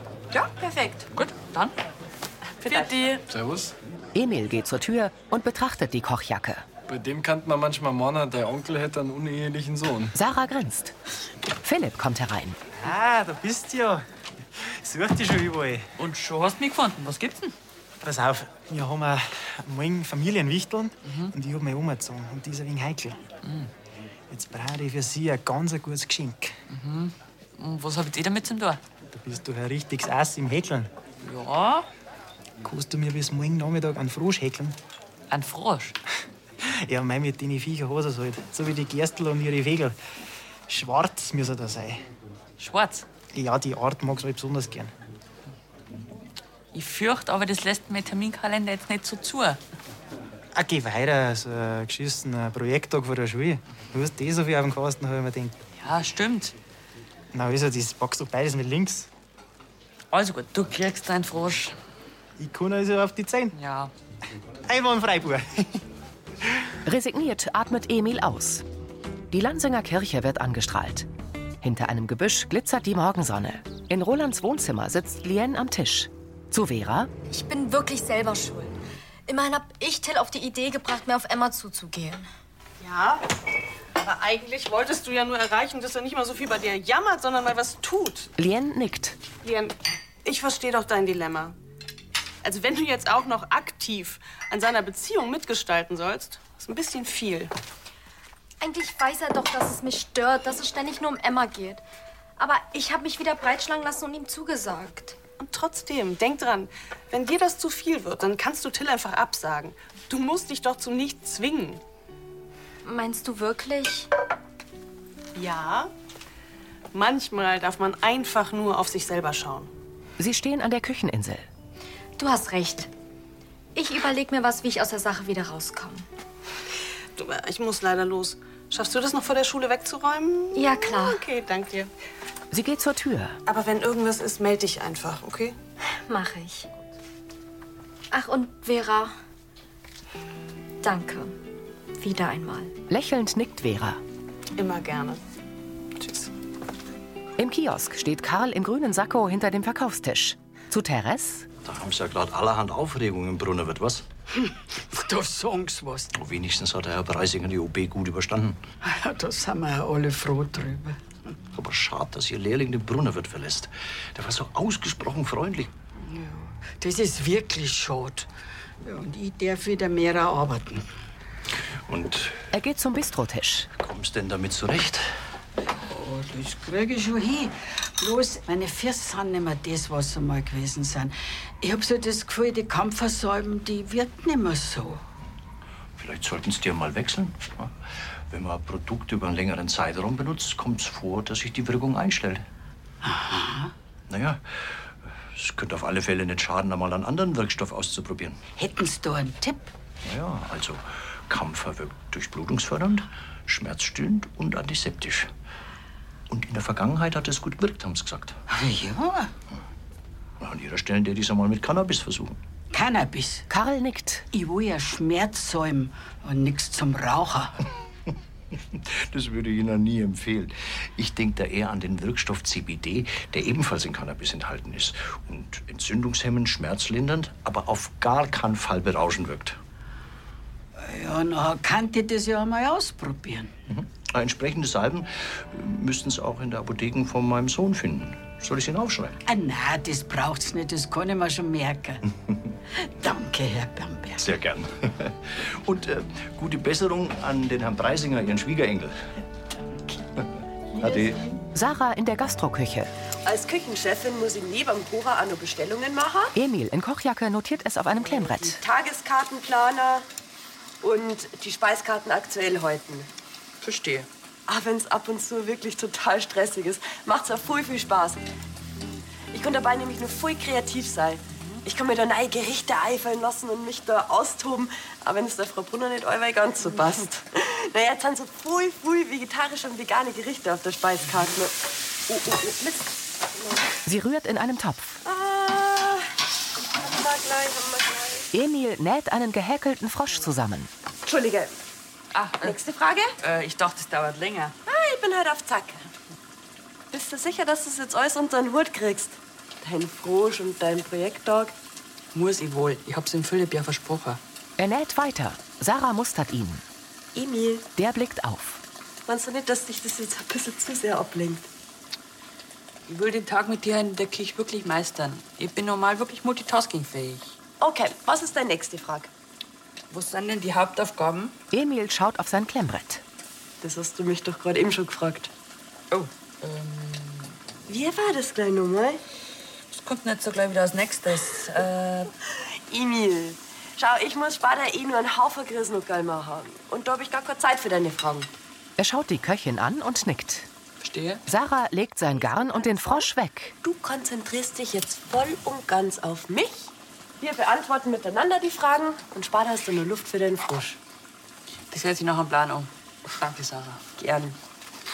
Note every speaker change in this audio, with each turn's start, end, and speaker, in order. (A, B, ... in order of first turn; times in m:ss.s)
0:00.4-0:01.1 A
0:01.2-0:01.8 B
0:02.6-0:03.2 A
0:02.7-0:03.1 B
0:03.3-0:03.7 C
0:04.1-0:06.7 D
0:06.9-0:10.1 C
0:10.1-0:10.9 D
0:11.6-0:12.6 D
0:12.8-0:14.0 E
0:14.6-0:15.9 E
0:16.0-0:17.6 B
0:18.0-0:23.3 E
0:21.0-0:21.3 B
0:23.4-0:23.7 B
0:24.3-0:26.6 E
0:26.7-0:28.8 B
0:29.1-0:30.9 E
0:31.2-0:31.9 B
0:32.6-0:34.8 E
0:35.3-0:36.0 B
0:36.6-0:40.0 E
0:40.7-0:42.0 E
0:42.6-0:43.1 B
0:43.3-0:44.9 E
0:46.7-0:49.6 B
0:50.6-0:55.6 E
0:55.8-0:56.6 B
0:57.3-0:59.1 E
1:00.1-1:01.8 B
1:02.4-1:03.5 E
1:03.5-1:03.9 B
1:04.7-1:05.8 E
1:06.8-1:08.6 D
1:09.3-1:11.1 D
1:11.6-1:17.1 D
1:17.3-1:22.3 F
1:22.8-1:23.2 G
1:24.0-1:28.3 G
1:28.4-1:29.2 D
1:29.4-1:31.6 G
1:32.4-1:37.5 G
1:38.6-1:41.8 F
1:42.4-1:45.2 F
1:45.4-1:51.8 G
1:52.8-1:54.1 F
1:55.4-1:55.9 G
1:56.9-1:59.7 G
2:00.2-2:01.5 D
2:02.2-2:02.9 F
2:03.8-2:06.1 F
2:07.2-2:11.9 G
2:10.5-2:11.2 F
2:12.5-2:13.4 D
2:13.5-2:15.6 G
2:16.1-2:16.7 F
2:18.1-2:19.1 F
2:20.8-2:21.4 F
2:22.0-2:22.7 F
2:22.9-2:24.0 D
2:24.6-2:25.2 G
2:26.0-2:26.3 G
2:27.4-2:31.5 D
2:31.6-2:34.0 H
2:34.4-2:36.1 I
2:36.1-2:38.6 H
2:38.8-2:41.0 I
2:41.6-2:45.7 H
2:46.0-2:48.3 I
2:48.8-2:50.9 I
2:51.9-2:52.4 H
2:52.5-2:53.7 D
2:53.8-2:55.1 H
2:55.9-3:05.0 I
3:06.0-3:07.7 H
3:08.3-3:12.4 H
3:13.0-3:13.7 I
3:14.1-3:14.8 H
3:15.4-3:18.4 H
3:18.6-3:19.7 I
3:20.0-3:25.3 H
3:26.3-3:28.4 H
3:28.5-3:29.3 I
3:30.4-3:32.4 H
3:32.7-3:33.5 I
3:33.5-3:34.3 D
3:34.3-3:37.6 I
3:38.7-3:49.6 H
3:50.8-3:53.5 I
3:53.7-3:59.2 H
3:59.3-4:02.0 I
4:02.8-4:04.3 I
4:04.2-4:09.0 H
4:10.8-4:11.2 H
4:11.5-4:12.9 D
4:13.2-4:16.3 A
4:16.4-4:18.6 D
4:18.0-4:20.0 A
4:20.8-4:23.1 A
4:23.6-4:24.1 B
4:24.5-4:28.2 A
4:29.3-4:41.6 A
4:31.3-4:31.6 B
4:42.1-4:43.6 A
4:43.8-4:45.0 D
4:45.0-4:46.1 A
4:46.7-4:48.3 A
4:48.3-4:50.7 D
4:51.0-4:51.5 A
4:52.1-4:52.6 B
4:52.4-4:53.1 A
4:53.2-4:54.6 B
4:54.7-4:55.9 A
4:56.9-5:01.5 A
5:02.1-5:04.2 B
5:04.6-5:06.6 D
5:07.2-5:07.7 A
5:07.8-5:08.6 D
5:09.1-5:11.5 A
5:12.9-5:17.3 B
5:17.6-5:19.1 A
5:19.9-5:21.4 B
5:21.5-5:23.0 D
5:23.6-5:25.3 A
5:25.9-5:27.3 B
5:27.7-5:29.0 A
5:29.7-5:32.1 B
5:32.7-5:38.3 A
5:38.8-5:40.5 D
5:40.8-5:41.2 B
5:41.3-5:43.5 D
5:43.6-5:50.8 A
5:51.7-5:53.8 B
5:54.0-5:54.4 A